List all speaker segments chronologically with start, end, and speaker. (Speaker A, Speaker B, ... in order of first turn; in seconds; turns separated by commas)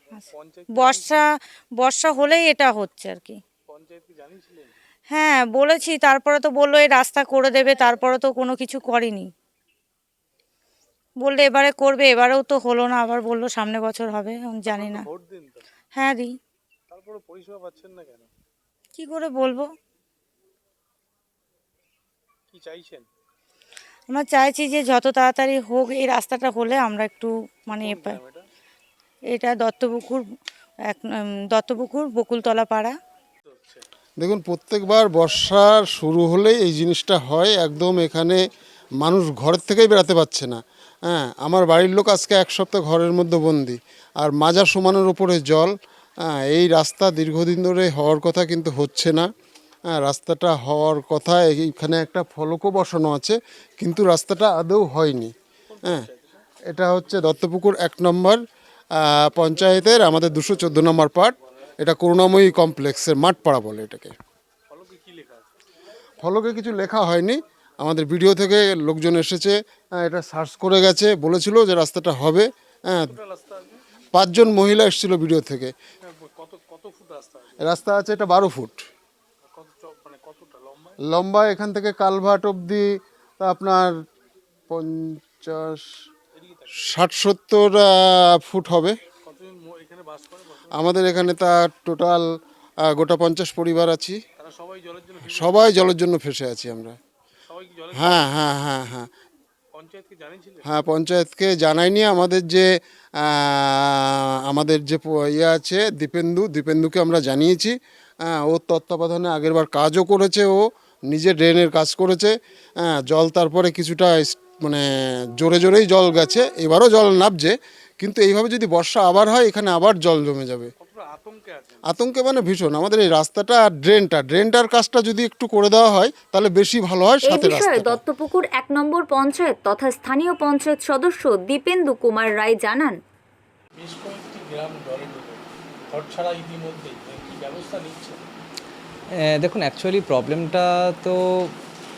Speaker A: 0.1-1.1, Speaker B: 0.7-1.3, Speaker B: 1.8-3.4, Speaker A: 3.7-4.7, Speaker B: 5.1-9.3, Speaker B: 11.2-15.1, Speaker A: 14.7-15.6, Speaker B: 15.9-16.4, Speaker A: 16.9-18.3, Speaker B: 19.0-19.7, Speaker A: 22.5-23.1, Speaker B: 24.1-28.2, Speaker A: 27.7-28.4, Speaker B: 29.3-30.2, Speaker B: 30.9-32.9, Speaker A: 33.5-33.8, Speaker C: 34.2-38.4, Speaker C: 39.0-45.7, Speaker C: 46.3-49.3, Speaker C: 50.0-56.1, Speaker A: 55.7-56.4, Speaker C: 56.7-58.4, Speaker C: 59.0-64.1, Speaker A: 64.7-65.5, Speaker C: 66.2-73.1, Speaker A: 73.1-73.8, Speaker C: 74.1-75.7, Speaker A: 76.0-77.6, Speaker C: 77.6-78.8, Speaker A: 79.4-81.0, Speaker C: 81.1-82.9, Speaker C: 83.4-83.9, Speaker C: 84.7-85.9, Speaker A: 86.3-86.9, Speaker C: 86.8-89.0, Speaker A: 89.2-90.8, Speaker C: 90.7-92.3, Speaker C: 92.8-94.2, Speaker A: 94.4-95.8, Speaker C: 95.2-97.0, Speaker A: 97.5-98.3, Speaker C: 97.9-99.1, Speaker A: 99.7-100.7, Speaker C: 100.6-102.7, Speaker C: 103.2-112.3, Speaker C: 112.8-114.8, Speaker C: 115.4-120.7, Speaker A: 120.8-121.8, Speaker C: 121.9-128.0, Speaker D: 127.2-133.0, Speaker A: 133.8-138.2, Speaker E: 139.2-141.5